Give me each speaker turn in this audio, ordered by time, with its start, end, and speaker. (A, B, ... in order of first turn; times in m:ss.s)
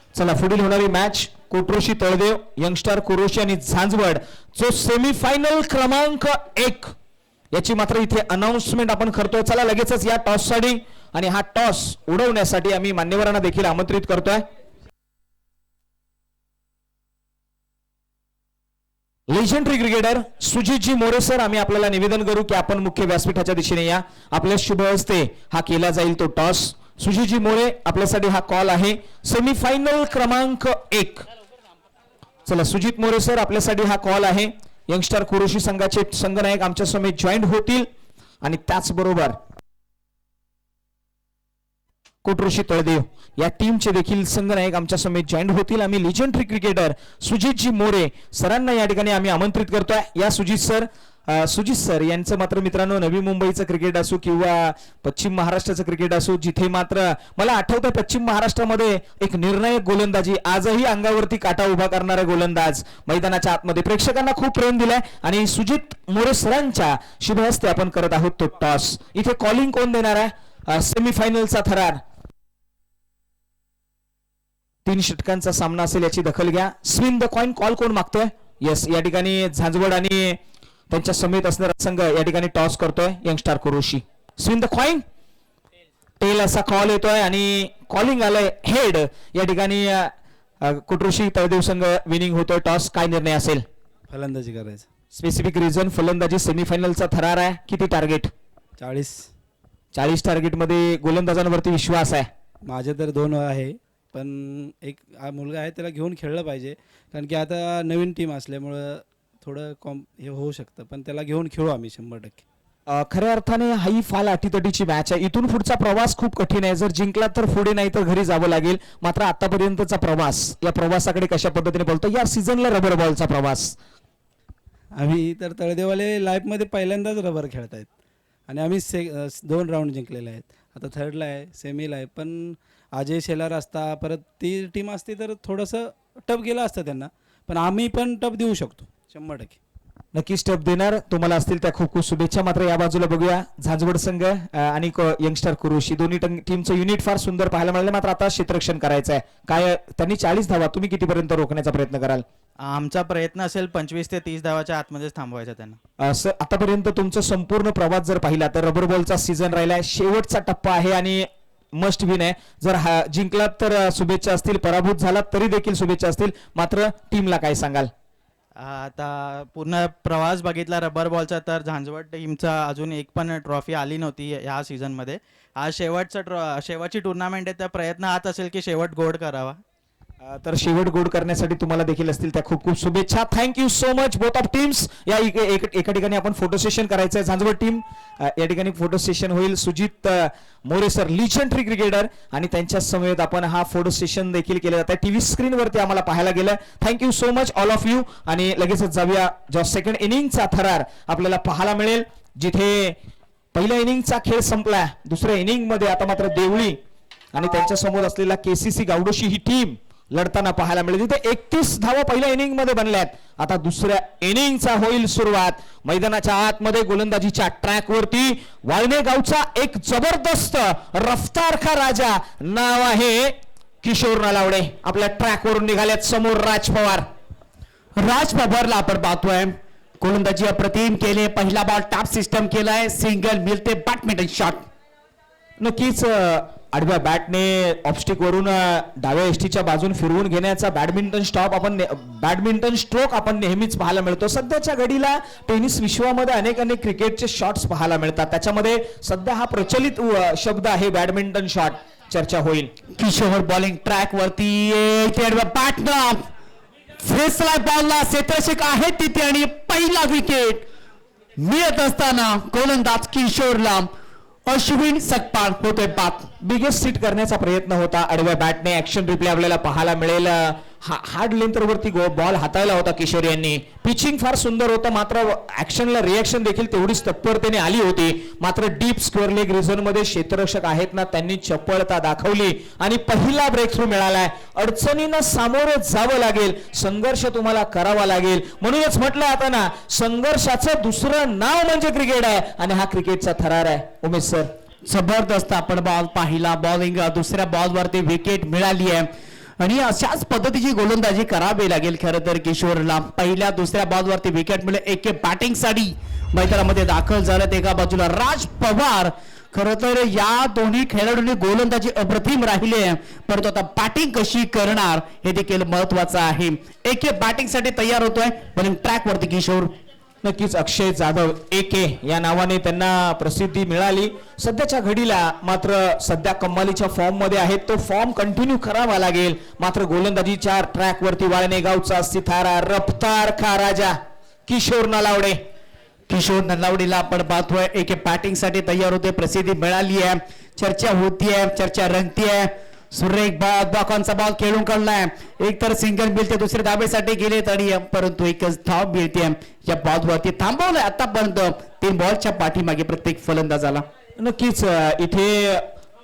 0:00.1-0:06.9 A
0:07.5-0:14.4 A
0:19.3-0:31.3 A
0:32.5-0:37.9 A
0:38.4-0:39.4 A
0:42.2-1:12.0 A
1:14.8-1:20.4 A
1:20.9-1:25.0 A
1:26.2-1:33.6 A
1:34.1-1:34.9 B
1:35.1-1:38.3 A
1:38.8-1:39.3 B
1:39.9-1:42.3 A
1:42.7-1:52.4 B
1:52.9-2:03.8 A
2:05.0-2:07.9 B
2:08.5-2:19.6 B
2:20.1-2:32.2 A
2:32.6-2:35.8 C
2:36.0-2:47.9 A
2:48.6-2:59.6 C
3:00.2-3:23.0 A
3:23.5-3:26.8 A
3:27.3-3:47.1 A
3:48.0-3:54.6 D
3:55.6-4:12.7 A
4:13.0-4:16.3 D
4:17.0-4:20.7 D
4:21.4-4:23.9 D
4:24.5-4:26.3 D
4:26.4-4:54.5 A
4:54.9-4:59.1 D
4:59.6-5:19.7 D
5:20.2-5:35.4 A
5:36.1-5:53.9 D
5:54.2-5:55.7 A